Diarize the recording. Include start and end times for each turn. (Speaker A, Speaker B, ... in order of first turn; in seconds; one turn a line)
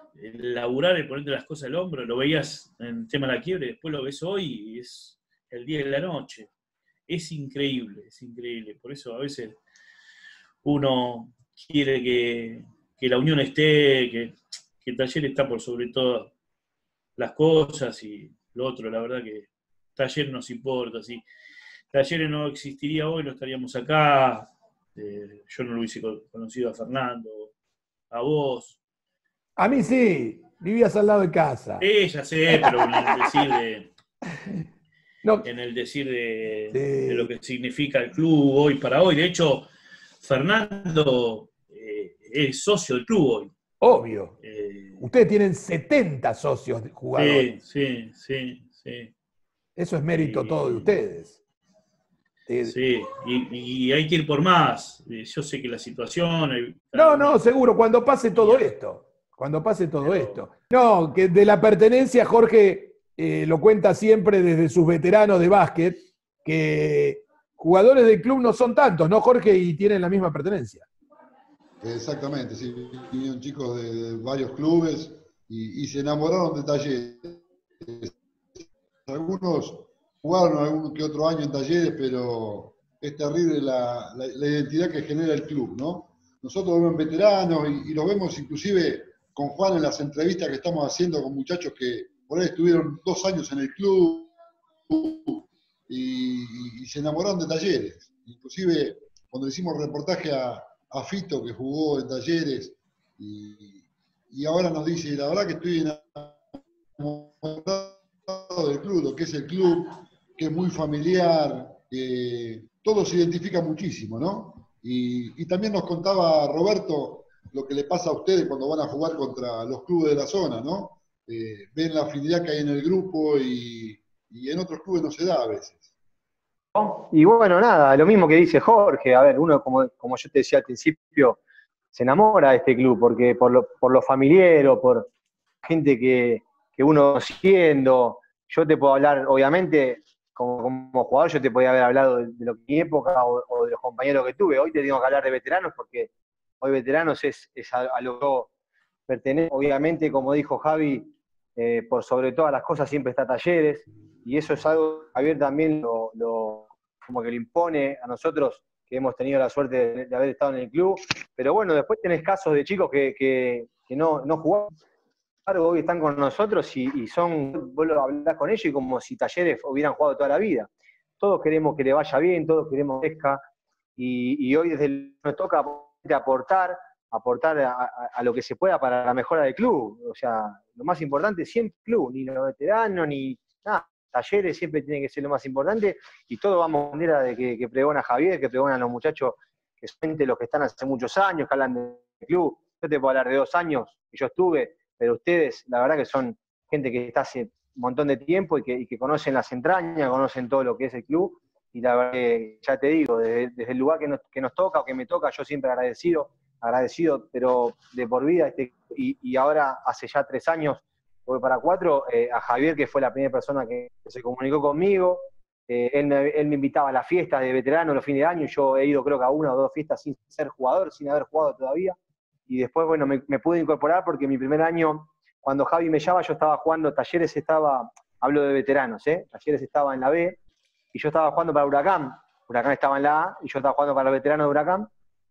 Speaker A: 0.1-6.5
Speaker A: 7.1-9.6
Speaker A: 10.6-16.3
Speaker A: 17.2-21.2
Speaker A: 21.9-27.5
Speaker A: 28.1-28.8
Speaker B: 29.6-31.8
Speaker A: 31.8-33.9
Speaker B: 32.5-33.3
Speaker B: 34.3-34.6
Speaker A: 35.4-39.7
Speaker B: 36.7-37.3
Speaker A: 40.2-43.5
Speaker B: 43.8-44.4
Speaker A: 44.4-45.0
Speaker B: 45.0-47.5
Speaker A: 47.1-49.1
Speaker B: 49.8-51.3
Speaker A: 50.1-51.0
Speaker B: 52.5-52.7
Speaker A: 52.6-57.4
Speaker B: 56.9-70.9
Speaker A: 58.3-58.7
Speaker A: 60.0-60.4
Speaker C: 71.8-94.3
Speaker C: 94.9-106.4
Speaker C: 107.0-125.9
Speaker D: 126.7-131.4
Speaker D: 131.9-135.1
Speaker D: 135.6-148.5
Speaker D: 149.1-164.7
Speaker D: 165.4-170.7
Speaker D: 171.2-173.4
Speaker D: 174.0-221.9
Speaker D: 222.5-230.4
Speaker D: 230.9-234.9